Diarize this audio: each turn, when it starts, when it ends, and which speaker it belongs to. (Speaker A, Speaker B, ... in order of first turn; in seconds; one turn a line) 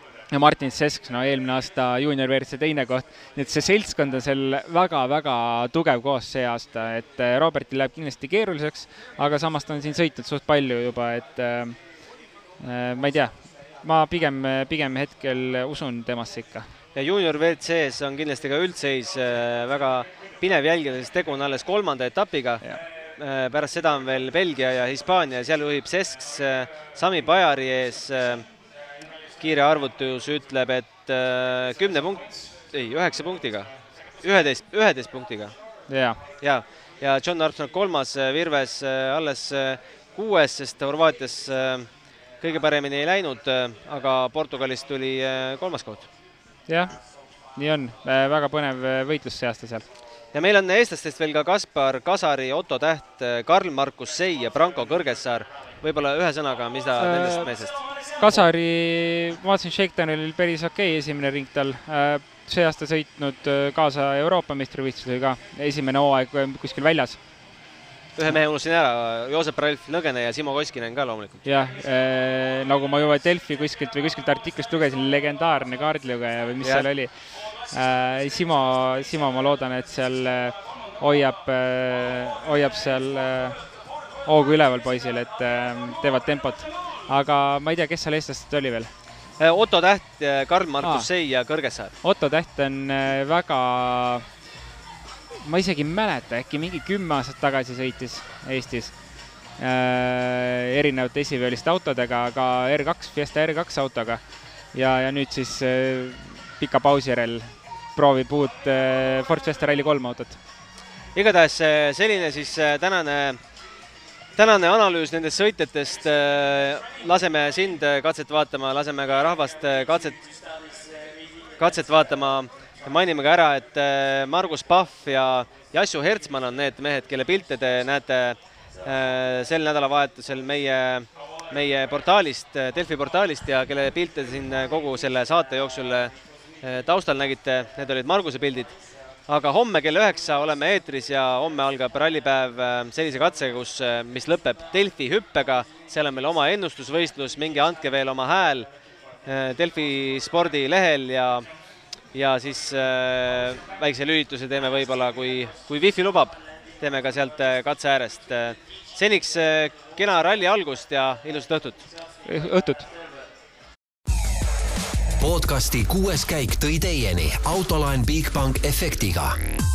Speaker A: 0.3-11.8
Speaker A: 12.6-16.7
Speaker B: 16.9-22.6
Speaker B: 23.2-28.4
Speaker B: 29.4-33.7
Speaker B: 34.2-35.5
Speaker A: 35.9-36.2
Speaker B: 36.4-41.9
Speaker B: 42.4-46.1
Speaker A: 46.7-46.9
Speaker A: 47.5-49.8
Speaker B: 50.3-57.8
Speaker A: 57.0-57.5
Speaker A: 58.2-67.2
Speaker B: 68.2-71.4
Speaker A: 71.4-77.1
Speaker A: 77.7-83.6
Speaker A: 84.2-88.9
Speaker B: 89.4-91.9
Speaker A: 90.8-91.1
Speaker A: 92.0-94.2
Speaker A: 95.4-98.9
Speaker A: 99.6-104.2
Speaker A: 104.7-110.4
Speaker B: 111.1-113.4
Speaker B: 114.4-120.2
Speaker B: 121.6-138.7
Speaker B: 139.3-148.7
Speaker B: 149.2-151.4
Speaker B: 152.1-161.8
Speaker A: 162.2-162.9
Speaker C: 165.2-169.4